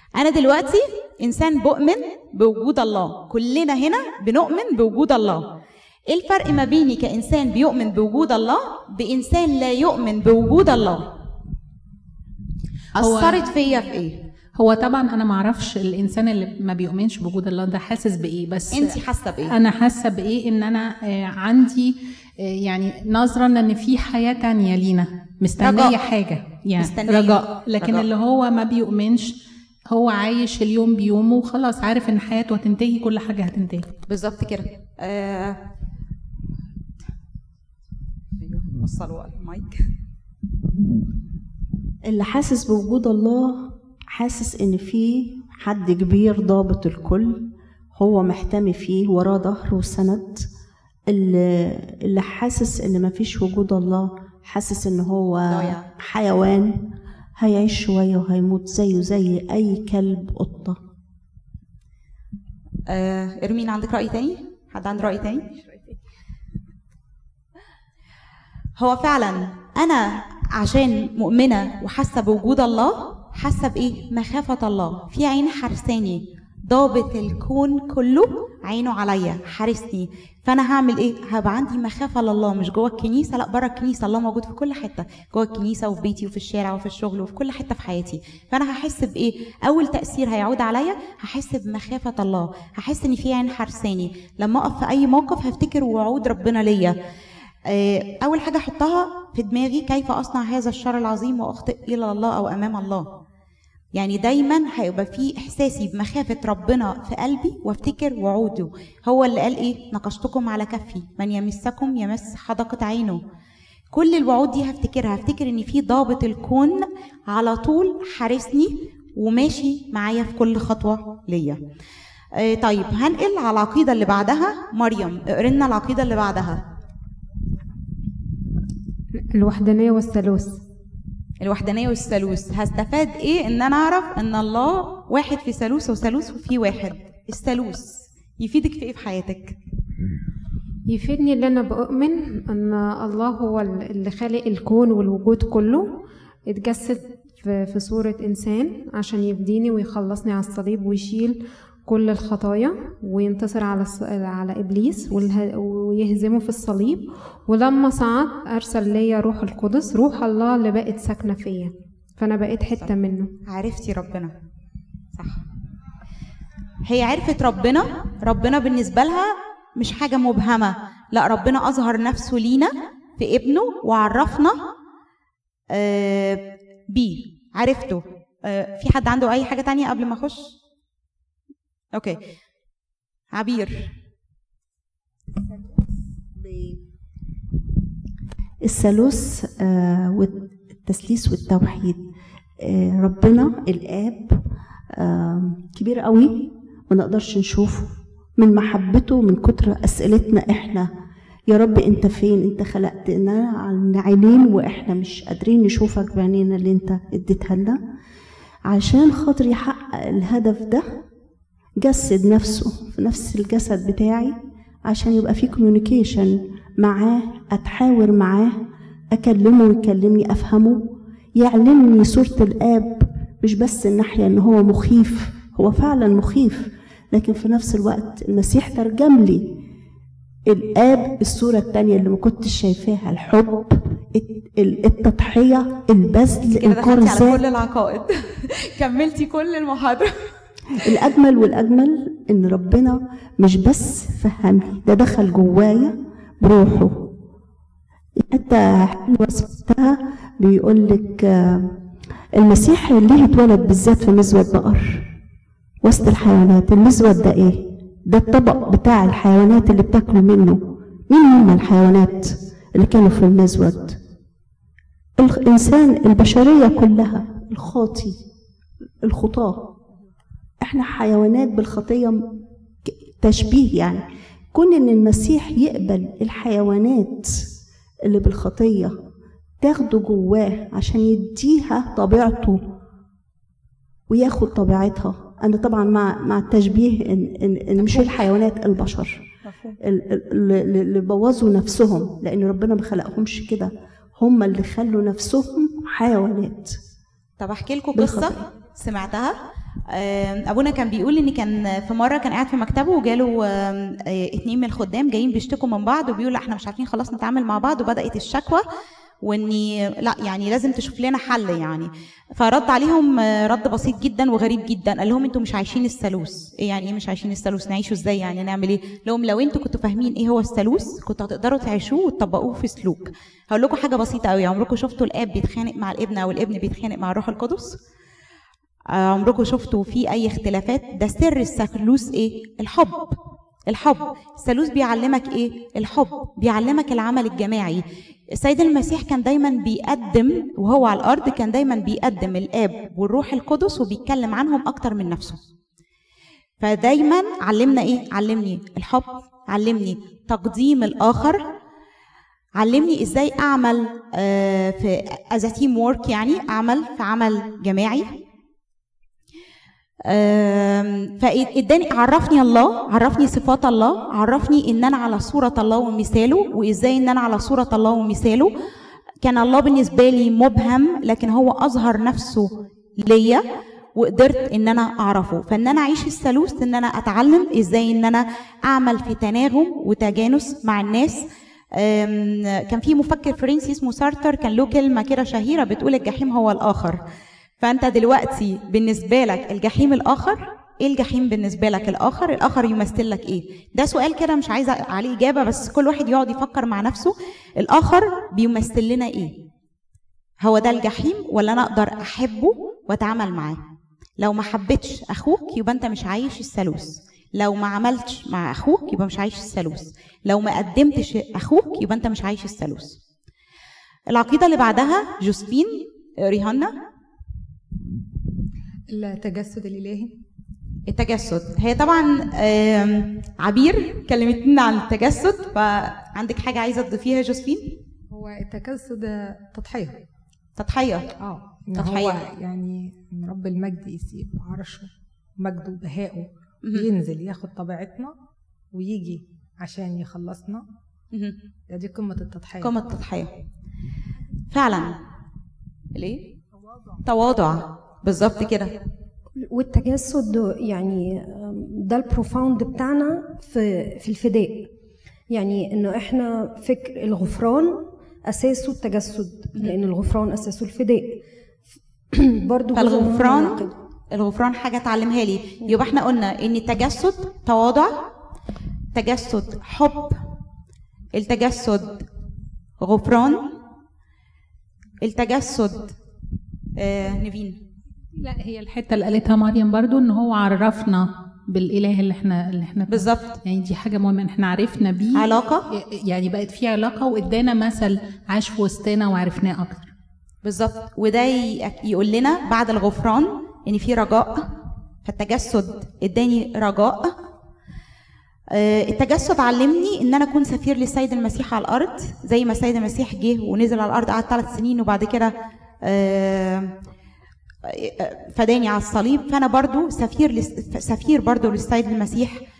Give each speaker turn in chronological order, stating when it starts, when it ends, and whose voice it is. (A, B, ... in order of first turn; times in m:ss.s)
0:00.2-0:05.4 A
0:06.1-0:11.1 A
0:13.0-0:14.2 A
0:13.0-0:13.4 B
0:14.6-0:29.4 B
0:18.7-0:19.5 A
0:25.6-0:26.0 A
0:26.8-0:28.1 A
0:29.9-0:33.9 B
0:34.1-0:35.6 A
0:38.4-0:39.8 A
0:42.1-0:50.5 C
0:51.1-1:00.8 C
0:55.5-0:55.9 A
1:02.9-1:05.5 A
1:08.8-1:37.0 A
1:37.7-1:43.1 A
1:44.0-1:53.2 A
1:53.9-2:01.6 A
2:02.4-2:06.6 A
2:09.2-2:10.6 D
2:11.4-2:19.5 A
2:20.9-2:43.3 D
2:43.4-2:44.3 A
2:45.2-2:45.4 A
2:46.8-2:54.6 A
2:55.7-3:00.5 A
3:03.3-3:03.9 A
3:06.3-3:06.8 C
3:08.6-3:12.0 C
3:12.6-3:20.9 C
3:21.5-3:27.8 C
3:28.7-3:30.9 C
3:31.8-3:49.6 C
3:50.5-3:57.4 C
3:56.6-4:00.2 A
4:00.8-4:07.1 C
4:08.2-4:11.8 C
4:12.3-4:15.1 C
4:15.8-4:24.0 C
4:25.2-4:28.2 C
4:29.0-4:29.7 C
4:30.6-4:32.3 C
4:32.9-4:37.3 C
4:38.1-4:39.0 C
4:39.6-4:42.6 C
4:44.1-4:49.3 C
4:47.8-4:48.1 A
4:49.8-4:56.8 C
4:57.4-4:59.4 A
4:58.0-4:58.5 C
4:59.9-5:08.6 A
5:09.2-5:27.8 A
5:28.9-5:33.2 A
5:33.7-5:45.4 A
5:46.6-5:51.5 A
5:52.6-5:58.1 A
6:00.1-6:08.5 A
6:09.2-6:13.4 A
6:14.0-6:21.2 A
6:21.7-6:27.0 A
6:27.6-6:39.3 A
6:40.4-6:43.6 A
6:44.2-6:53.0 A
6:54.1-6:56.7 A
6:58.9-7:00.1 E
7:00.9-7:07.8 A
7:08.1-7:10.0 E
7:10.6-7:11.1 A
7:11.2-7:18.2 E
7:11.8-7:12.2 A
7:18.7-7:20.6 E
7:21.7-7:22.7 E
7:22.6-7:23.3 A
7:24.5-7:25.0 A
7:26.0-7:26.2 A
7:27.0-7:28.7 A
7:29.4-7:34.7 F
7:35.3-7:41.2 F
7:42.1-7:43.8 F
7:42.7-7:48.0 A
7:48.9-7:50.2 A
7:51.1-7:52.1 A
7:52.8-7:53.5 A
7:55.0-7:56.0 A
7:56.8-7:57.6 A
7:58.2-8:09.9 B
8:02.9-8:03.4 A
8:05.2-8:05.7 A
8:10.4-8:14.5 A
8:15.0-8:17.2 A
8:18.5-8:25.3 A
8:25.8-8:26.7 A
8:27.7-8:32.4 A